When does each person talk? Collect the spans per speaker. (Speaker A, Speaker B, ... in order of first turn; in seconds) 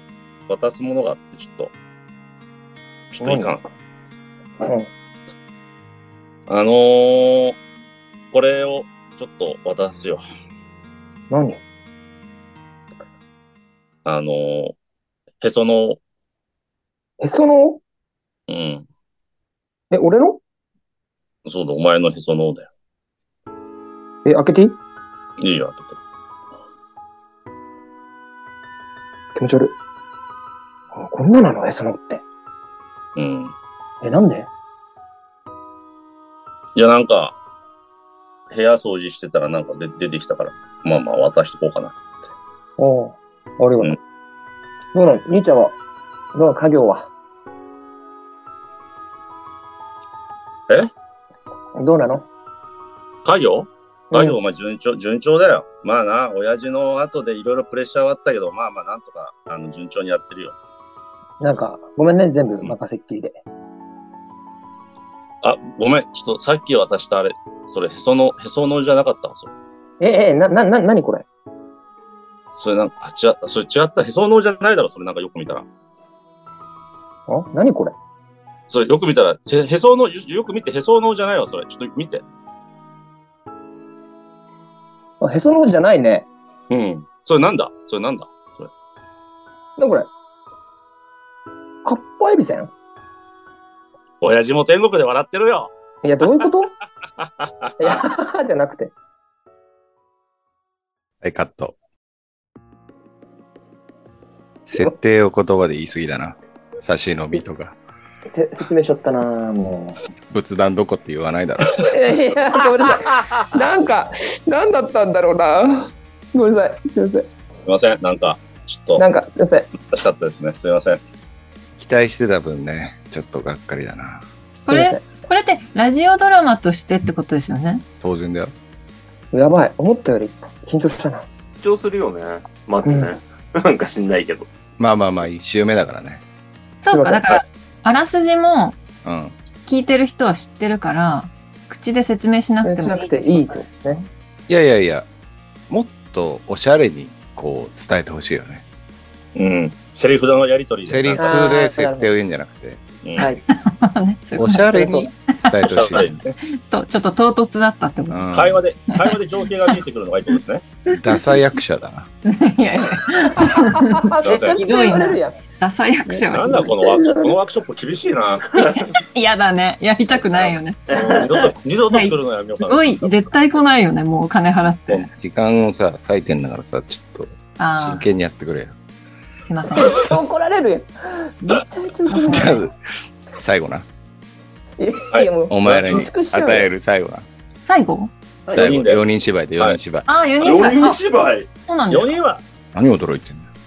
Speaker A: 0.5-1.7, 3.1-3.6, 6.5-7.6, 8.3-10.2, 14.0-14.7, 15.4-16.0, 18.5-18.9, 21.4-22.7, 25.4-26.0, 33.1-33.5, 36.7-37.3, 38.5-42.0, 53.2-60.5, 65.4-69.5, 72.5-75.6, 78.7-82.2, 86.7-88.7, 94.2-95.7, 97.2-98.0, 117.7-119.0, 119.8-121.0, 149.3-151.3, 155.6-156.4, 158.3-160.6, 164.2-164.6, 166.1-168.5, 170.9-173.2, 185.1-186.1, 188.5-189.0, 191.9-192.4
Speaker B: 3.2-3.6, 4.6-4.9, 11.3-11.6, 17.2-17.8, 19.9-20.4, 24.2-24.8, 29.3-29.7, 30.9-32.2, 34.0-34.5, 42.8-44.0, 44.9-45.8, 46.3-47.1, 51.8-52.3, 54.1-54.4, 61.4-63.4, 70.0-71.2, 77.3-77.9, 85.2-86.3, 89.8-90.1, 91.8-92.7, 96.0-96.7, 97.8-98.9, 108.3-110.0, 111.8-117.3, 119.0-119.7, 124.7-125.0, 129.3-131.2, 132.8-133.1, 136.9-137.4, 142.6-144.1, 151.2-152.1, 163.4-165.4, 166.4-167.3, 179.7-182.7, 184.8-186.7
Speaker C: 101.2-101.8, 104.7-107.8, 110.3-111.8, 121.8-124.2, 128.0-128.5, 134.8-136.2, 139.0-139.3, 144.5-145.1, 145.7-148.6, 150.8-152.8, 154.4-156.1, 158.1-158.6, 160.9-162.1, 174.9-178.8, 182.2-182.7, 183.3-183.8, 185.5-187.2, 188.5-190.1, 192.7-193.5
Speaker D: 124.7-127.8, 136.8-138.8, 139.6-143.5, 153.5-155.6, 156.4-159.1, 162.2-166.7, 168.6-171.2, 171.9-175.1, 177.6-178.1, 179.4-180.1, 182.1-182.6, 187.7-188.1, 190.1-191.0, 191.7-192.1
Speaker E: 131.6-134.5, 170.9-171.5, 190.4-191.5